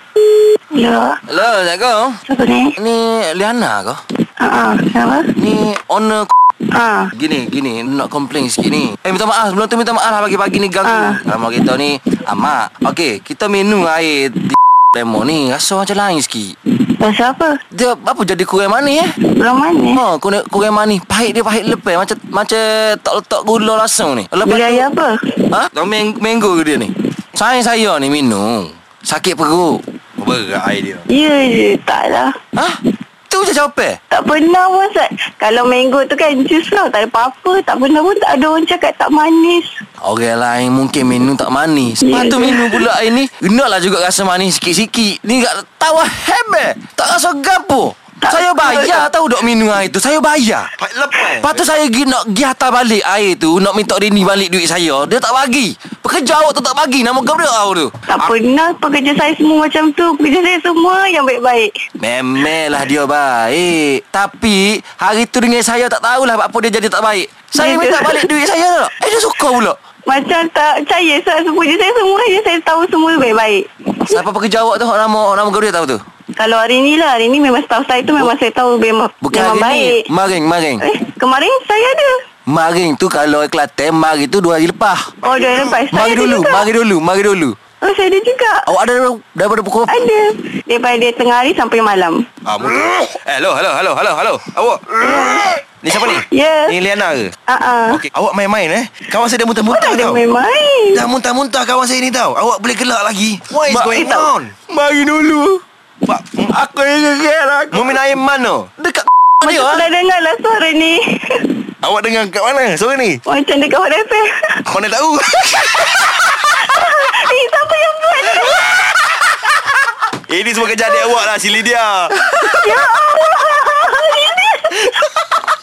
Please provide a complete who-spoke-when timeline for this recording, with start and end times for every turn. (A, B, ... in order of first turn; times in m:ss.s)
0:00.7-0:01.2 A
0:01.3-0:02.2 B
0:02.3-0:02.8 A
0:02.8-0:04.0 B
0:04.4-0:05.3 A
0:05.4-0:06.3 B
0:06.8-0:07.1 A
0:07.2-0:16.6 B
0:10.8-0:11.2 A
0:17.0-0:17.6 A
0:17.7-0:19.2 B
0:19.4-0:20.0 A
0:20.0-0:24.9 B
0:24.5-0:25.4 A
0:25.5-0:29.8 B
0:30.2-0:31.0 C
0:31.1-0:32.4 A
0:32.6-0:34.0 B
0:34.1-0:39.8 A
0:40.0-0:50.7 B
0:42.0-0:42.8 A
0:48.2-0:49.1 A
0:50.8-0:51.8 C
0:51.2-0:58.3 B
0:58.1-1:01.7 A
1:02.0-1:09.8 B
1:07.6-1:08.3 A
1:10.1-1:14.2 A
1:14.1-1:16.0 B
1:16.4-1:20.0 A
1:19.2-1:20.8 B
1:20.8-1:22.2 A
1:22.5-1:25.1 B
1:25.2-1:26.7 A
1:25.3-1:25.5 C
1:25.9-1:27.6 B
1:27.8-1:28.7 A
1:28.7-1:30.0 B
1:29.9-1:32.3 A
1:32.4-1:37.3 C
1:36.0-1:36.8 A
1:37.5-1:38.0 A
1:37.9-1:40.2 C
1:39.6-1:41.0 A
1:40.9-1:44.6 C
1:43.7-1:45.6 B
1:44.0-1:44.3 A
1:46.1-1:46.6 C
1:46.4-1:48.1 B
1:47.7-1:48.7 C
1:48.8-1:49.9 B
1:49.4-1:51.6 A
1:51.8-1:53.2 C
1:53.3-1:54.6 A
1:54.7-1:56.0 C
1:56.4-1:59.0 A
2:00.3-2:02.2 C
2:02.4-2:05.1 A